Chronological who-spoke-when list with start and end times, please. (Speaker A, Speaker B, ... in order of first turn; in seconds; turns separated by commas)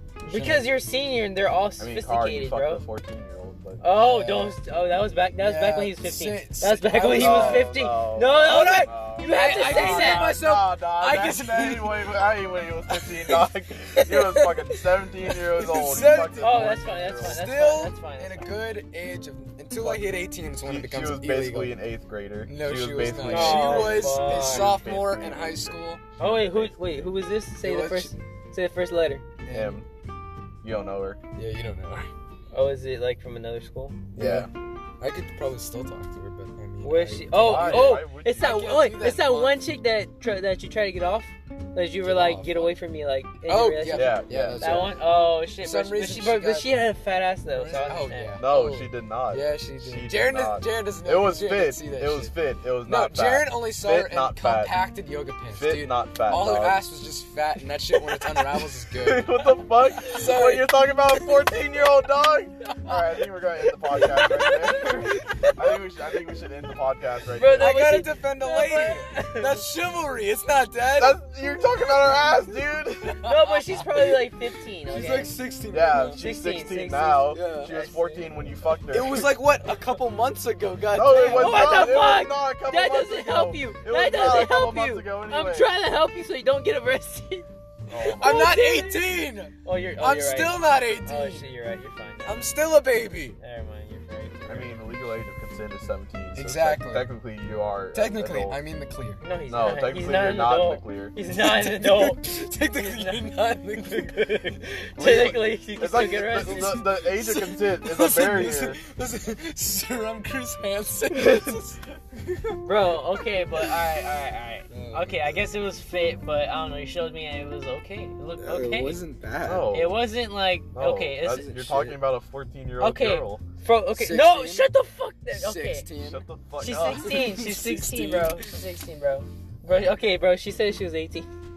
Speaker A: 0.2-2.8, Speaker B: 0.3-0.7, Speaker C: 1.8-3.8, Speaker A: 3.8-10.3, Speaker B: 3.9-4.6, Speaker B: 5.4-7.7, Speaker C: 7.1-17.4, Speaker B: 9.2-12.1, Speaker B: 12.9-21.8, Speaker A: 16.4-18.5, Speaker C: 19.8-20.0, Speaker C: 20.6-27.2, Speaker B: 22.4-26.0, Speaker A: 23.3-24.8, Speaker A: 26.2-29.2, Speaker B: 27.6-28.1, Speaker B: 29.4-29.8, Speaker C: 29.5-29.9, Speaker C: 30.6-31.2, Speaker B: 31.3-32.1, Speaker A: 32.5-34.0, Speaker B: 34.1-34.5, Speaker C: 34.1-34.5, Speaker B: 35.0-39.6, Speaker A: 36.8-48.4, Speaker C: 37.3-38.7, Speaker B: 42.0-42.7, Speaker B: 43.5-45.0, Speaker C: 43.9-44.9, Speaker B: 45.6-46.8, Speaker B: 47.5-59.5, Speaker C: 48.4-54.7, Speaker C: 55.5-56.8, Speaker C: 58.9-67.8, Speaker B: 60.0-60.7, Speaker A: 63.9-65.5, Speaker B: 64.8-65.5, Speaker A: 67.3-69.6, Speaker B: 67.6-71.2, Speaker C: 70.9-73.2, Speaker A: 73.2-75.3, Speaker B: 73.2-74.3, Speaker B: 74.9-76.2, Speaker C: 75.7-79.3, Speaker A: 76.2-78.3, Speaker B: 77.3-77.7, Speaker B: 78.9-81.9, Speaker C: 80.9-85.7, Speaker A: 81.2-87.5, Speaker C: 87.9-88.6, Speaker A: 88.0-92.5, Speaker B: 88.1-91.5, Speaker B: 92.2-93.3, Speaker A: 93.4-94.8, Speaker C: 94.5-98.6, Speaker B: 96.3-97.1, Speaker B: 97.9-99.2, Speaker A: 99.2-102.2, Speaker C: 99.5-101.2, Speaker B: 101.3-105.4, Speaker A: 102.8-106.8, Speaker C: 105.0-108.8, Speaker B: 106.0-112.6, Speaker C: 111.1-111.6, Speaker A: 112.6-119.0, Speaker B: 113.5-113.8, Speaker B: 114.7-115.4, Speaker B: 118.4-119.7, Speaker C: 119.5-120.0, Speaker A: 119.7-121.5, Speaker C: 120.7-123.4, Speaker B: 121.3-122.0, Speaker A: 122.8-125.8, Speaker B: 123.9-124.7, Speaker B: 125.3-126.2, Speaker C: 126.0-127.3, Speaker A: 126.6-131.3, Speaker B: 126.8-128.6